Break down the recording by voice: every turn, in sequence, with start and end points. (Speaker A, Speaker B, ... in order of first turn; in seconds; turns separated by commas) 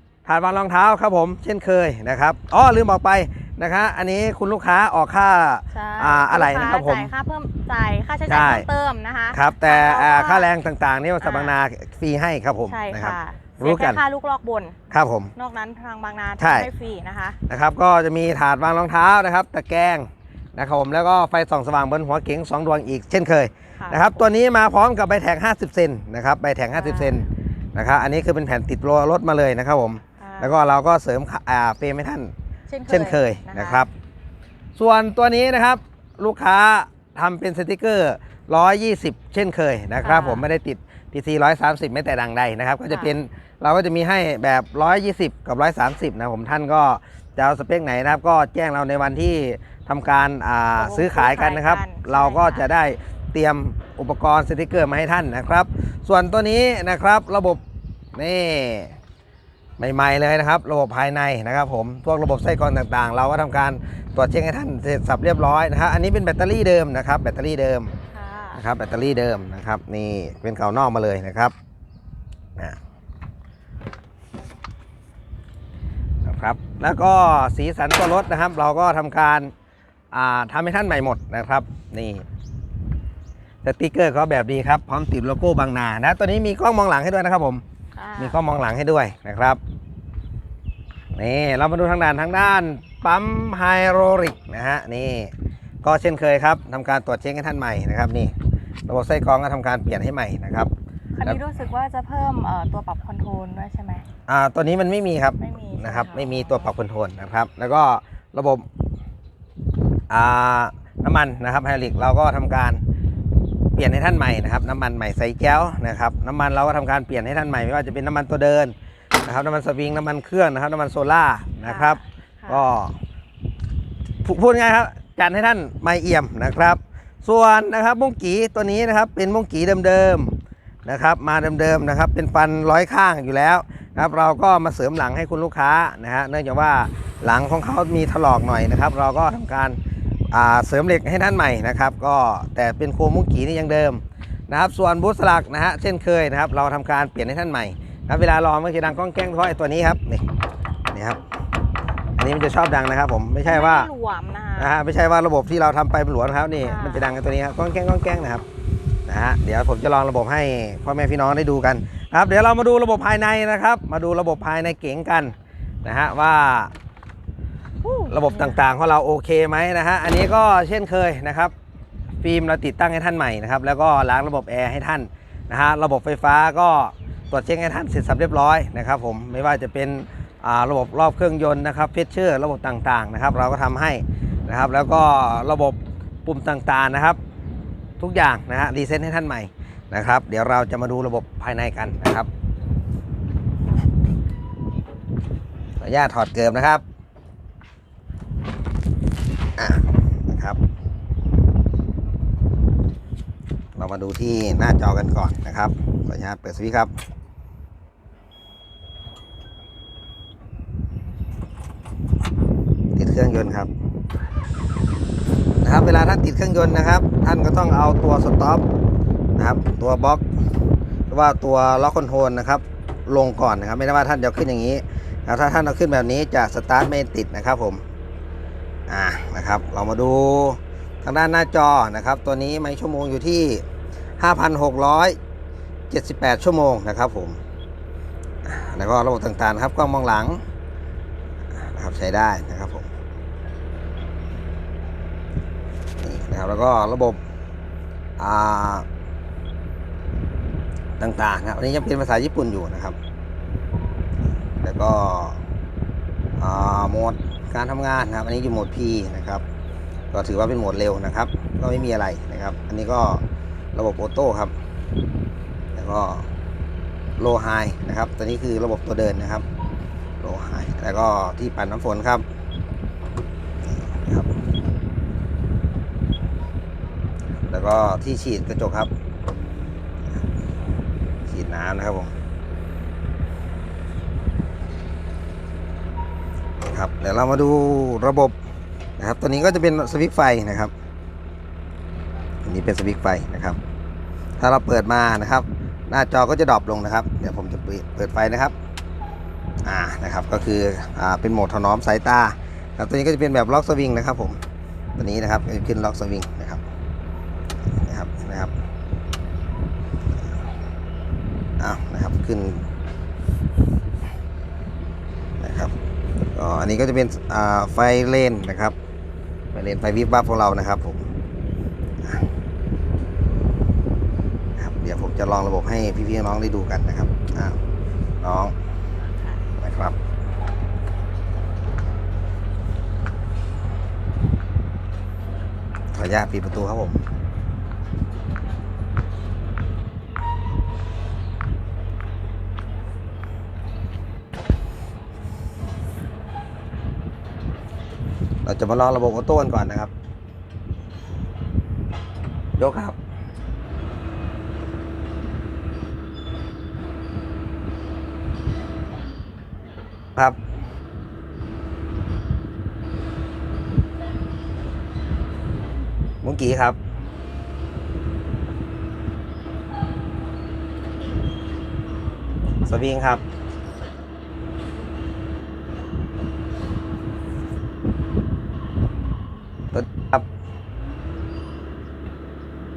Speaker A: 0.2-7.1, Speaker B: 5.7-10.5, Speaker A: 8.3-8.7, Speaker A: 9.3-14.0, Speaker B: 11.2-11.6, Speaker B: 12.7-14.8, Speaker A: 14.9-15.3, Speaker B: 15.3-17.4, Speaker A: 16.4-16.7, Speaker A: 17.5-32.3, Speaker B: 23.8-24.2, Speaker B: 26.7-27.3, Speaker B: 30.2-30.5, Speaker B: 32.7-33.9, Speaker A: 32.9-33.9, Speaker A: 34.8-57.6, Speaker B: 40.0-40.5, Speaker B: 50.8-52.7, Speaker A: 58.1-59.0, Speaker A: 59.8-67.9, Speaker B: 68.1-68.6, Speaker A: 68.5-71.5, Speaker A: 76.2-79.5, Speaker A: 80.1-82.2, Speaker A: 83.6-87.6, Speaker B: 88.0-88.4, Speaker A: 88.2-89.6, Speaker A: 91.2-98.3, Speaker A: 98.9-100.7, Speaker B: 101.2-104.0, Speaker A: 104.3-108.7, Speaker B: 105.4-106.7, Speaker A: 110.1-112.8, Speaker A: 113.8-123.0, Speaker B: 121.6-122.7, Speaker A: 124.2-139.8, Speaker A: 140.3-150.3, Speaker A: 150.9-151.2, Speaker A: 152.2-153.9, Speaker B: 153.4-154.7, Speaker A: 154.6-158.4, Speaker B: 156.6-157.1, Speaker A: 159.1-166.7, Speaker B: 167.8-168.6, Speaker A: 168.1-171.5, Speaker A: 172.2-187.2, Speaker A: 188.0-192.3, Speaker A: 195.8-196.8, Speaker A: 199.6-200.6, Speaker A: 203.7-206.9, Speaker A: 212.9-213.7, Speaker A: 215.6-218.6, Speaker A: 219.3-220.2, Speaker A: 221.1-227.8, Speaker A: 228.9-233.6, Speaker A: 234.2-235.2, Speaker A: 235.9-237.4, Speaker A: 238.4-240.4, Speaker A: 241.5-242.9, Speaker A: 246.0-247.2, Speaker A: 248.2-248.8, Speaker A: 251.0-253.0, Speaker A: 254.6-255.4, Speaker A: 256.4-259.4, Speaker A: 260.1-263.2, Speaker A: 263.7-264.5, Speaker A: 265.8-266.3, Speaker A: 267.2-269.4, Speaker A: 270.2-272.2, Speaker A: 273.6-274.3, Speaker A: 277.4-278.9, Speaker A: 281.2-282.1, Speaker A: 286.6-288.4, Speaker A: 289.0-290.7, Speaker A: 292.4-293.6, Speaker A: 294.4-298.5, Speaker A: 299.6-304.4, Speaker A: 305.0-306.6, Speaker A: 307.8-308.5, Speaker A: 311.6-312.6, Speaker A: 315.4-315.7, Speaker A: 316.3-318.8, Speaker A: 319.5-321.0, Speaker A: 322.0-322.3, Speaker A: 324.6-327.6, Speaker A: 328.2-328.5, Speaker A: 329.6-330.0, Speaker A: 335.9-337.0, Speaker A: 348.4-349.9, Speaker A: 352.6-353.0, Speaker A: 366.2-366.8, Speaker A: 372.6-373.2, Speaker A: 379.7-380.2